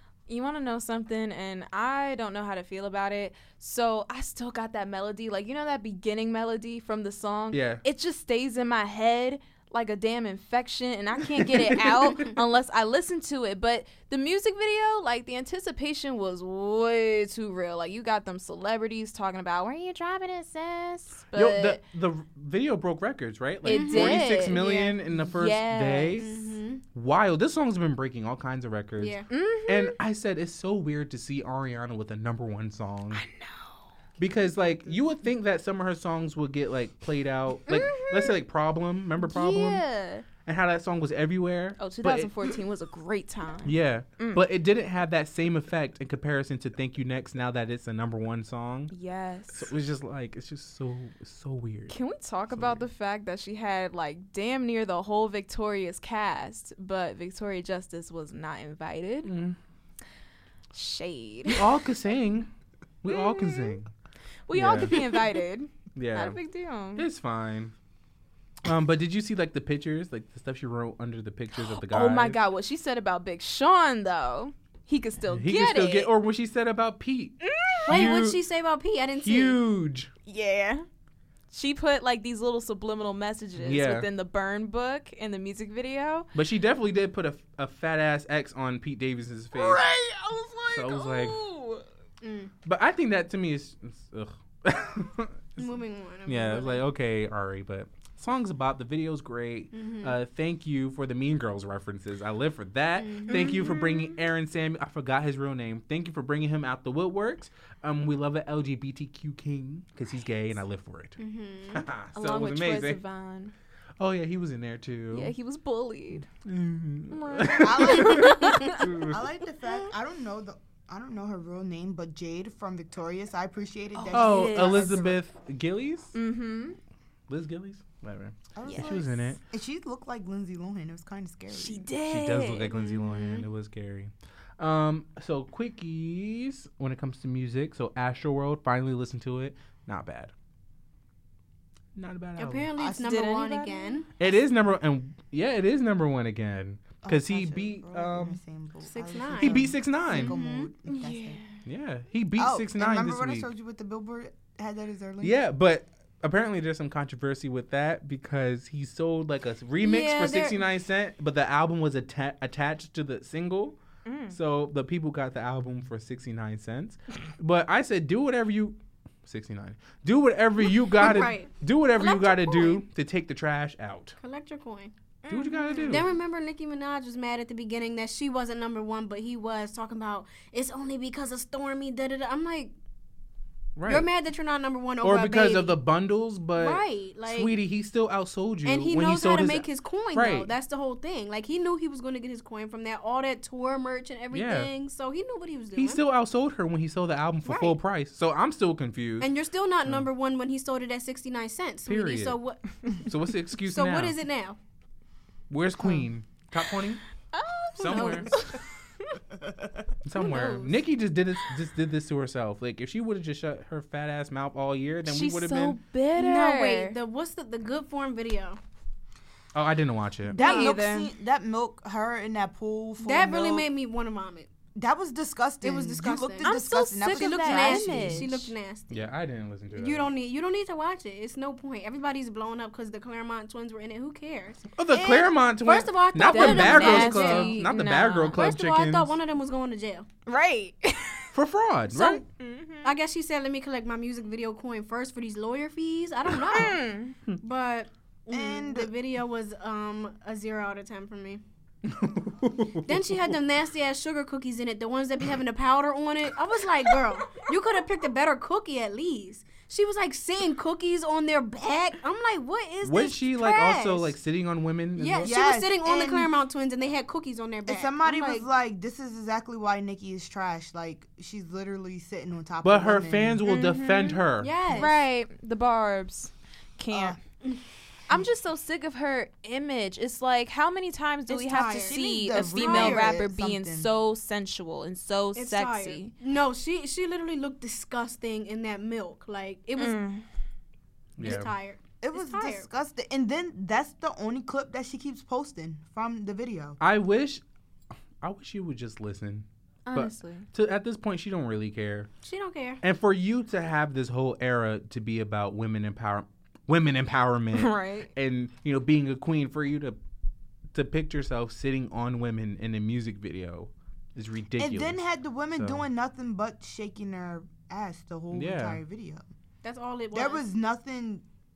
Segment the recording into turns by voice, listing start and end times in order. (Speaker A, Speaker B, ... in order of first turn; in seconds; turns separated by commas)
Speaker A: 0.3-21.8, Speaker B: 7.5-7.8, Speaker B: 11.5-12.3, Speaker B: 21.3-26.3, Speaker A: 23.6-26.4, Speaker C: 23.6-24.9, Speaker C: 26.2-26.8, Speaker B: 26.8-33.2, Speaker C: 29.0-29.2, Speaker A: 29.3-29.9, Speaker A: 33.1-33.8, Speaker B: 34.2-39.9, Speaker A: 37.7-38.3, Speaker A: 39.2-40.2, Speaker B: 40.4-42.3, Speaker A: 41.8-44.4, Speaker B: 43.6-48.9, Speaker A: 48.9-49.7, Speaker B: 49.5-51.9, Speaker A: 51.9-59.3, Speaker B: 52.5-52.9, Speaker B: 59.2-59.6, Speaker A: 60.7-61.7, Speaker B: 61.5-62.5, Speaker B: 63.0-63.9, Speaker A: 63.1-63.8, Speaker A: 64.5-67.0, Speaker B: 64.5-65.2, Speaker B: 65.9-66.4, Speaker B: 67.0-67.7, Speaker B: 68.6-72.4, Speaker A: 71.5-76.1, Speaker B: 75.2-78.4, Speaker A: 77.4-78.2, Speaker C: 77.9-79.6, Speaker B: 79.2-80.1, Speaker A: 80.2-80.8, Speaker A: 81.5-86.3, Speaker B: 83.6-84.1, Speaker B: 86.3-89.8, Speaker A: 89.5-91.8, Speaker B: 90.7-91.4, Speaker C: 92.2-92.5, Speaker B: 92.6-95.7, Speaker C: 95.6-96.9, Speaker B: 96.3-111.2, Speaker C: 99.7-100.2, Speaker C: 103.0-103.7, Speaker A: 103.2-104.2, Speaker C: 111.2-111.8, Speaker B: 111.7-113.0, Speaker A: 112.1-113.5, Speaker B: 114.0-115.3, Speaker A: 115.1-116.3, Speaker B: 116.4-119.2, Speaker A: 117.1-119.1, Speaker D: 117.6-125.2, Speaker C: 118.1-118.5, Speaker A: 124.0-125.1, Speaker B: 124.1-126.1, Speaker A: 126.1-126.8, Speaker B: 127.3-129.4, Speaker D: 128.5-131.8, Speaker A: 128.7-129.0, Speaker A: 131.5-133.4, Speaker B: 132.1-140.3, Speaker C: 133.2-133.4, Speaker B: 141.9-142.7, Speaker C: 142.4-144.1, Speaker D: 142.8-143.2, Speaker A: 143.0-144.0, Speaker B: 144.2-148.4, Speaker D: 147.0-151.4, Speaker C: 148.8-150.7, Speaker B: 149.4-150.3, Speaker A: 150.8-151.6, Speaker B: 151.6-153.5, Speaker D: 152.4-155.4, Speaker B: 155.2-174.2, Speaker C: 159.8-160.6, Speaker A: 164.0-164.4, Speaker C: 170.8-172.8, Speaker C: 174.2-174.9, Speaker A: 175.2-176.1, Speaker B: 175.3-176.1, Speaker C: 175.9-182.7, Speaker B: 183.8-184.1, Speaker C: 183.8-185.8, Speaker B: 185.0-190.5, Speaker C: 186.6-187.5, Speaker C: 188.6-196.0, Speaker B: 194.3-194.7, Speaker B: 195.8-199.3, Speaker C: 197.4-197.8, Speaker C: 199.2-203.0, Speaker B: 201.9-202.4, Speaker B: 203.0-204.1, Speaker C: 203.7-204.6, Speaker B: 205.5-207.0, Speaker A: 207.3-209.1, Speaker B: 207.8-208.4, Speaker C: 207.8-208.4, Speaker B: 210.0-215.8, Speaker A: 210.1-210.8, Speaker A: 215.0-216.9, Speaker C: 216.1-218.6, Speaker B: 219.5-220.4, Speaker D: 220.3-223.6, Speaker C: 220.4-220.8, Speaker A: 220.4-221.1, Speaker C: 223.0-224.5, Speaker D: 224.7-228.3, Speaker C: 225.6-226.6, Speaker A: 226.4-228.5, Speaker C: 227.1-229.1, Speaker B: 228.9-230.1, Speaker C: 229.7-234.7, Speaker B: 234.8-239.1, Speaker D: 234.9-235.4, Speaker C: 235.6-237.7, Speaker A: 236.2-238.4, Speaker C: 238.3-240.1, Speaker A: 240.2-241.3, Speaker B: 241.3-242.2, Speaker C: 241.9-242.2, Speaker A: 242.1-242.9, Speaker C: 242.8-246.8, Speaker A: 246.5-247.2, Speaker C: 247.3-251.4, Speaker D: 248.3-248.9, Speaker B: 251.8-253.3, Speaker C: 252.8-264.1, Speaker B: 262.8-265.3, Speaker C: 264.9-268.4, Speaker D: 265.2-266.3, Speaker D: 267.7-273.4, Speaker B: 272.6-274.6, Speaker A: 273.4-277.2, Speaker C: 274.4-274.9, Speaker D: 276.9-277.2, Speaker A: 278.1-286.1, Speaker C: 281.3-283.1, Speaker D: 281.7-283.9, Speaker C: 285.4-290.0, Speaker A: 289.8-290.2, Speaker B: 291.2-291.5, Speaker C: 291.2-292.6, Speaker D: 292.0-296.8, Speaker B: 296.8-297.4, Speaker B: 298.2-302.1, Speaker A: 299.9-300.5, Speaker C: 302.2-302.8, Speaker B: 302.8-310.0, Speaker A: 307.5-308.1, Speaker B: 310.7-315.0, Speaker D: 314.6-319.2, Speaker B: 315.5-315.8, Speaker B: 318.3-318.8, Speaker C: 319.6-320.4, Speaker D: 320.1-321.2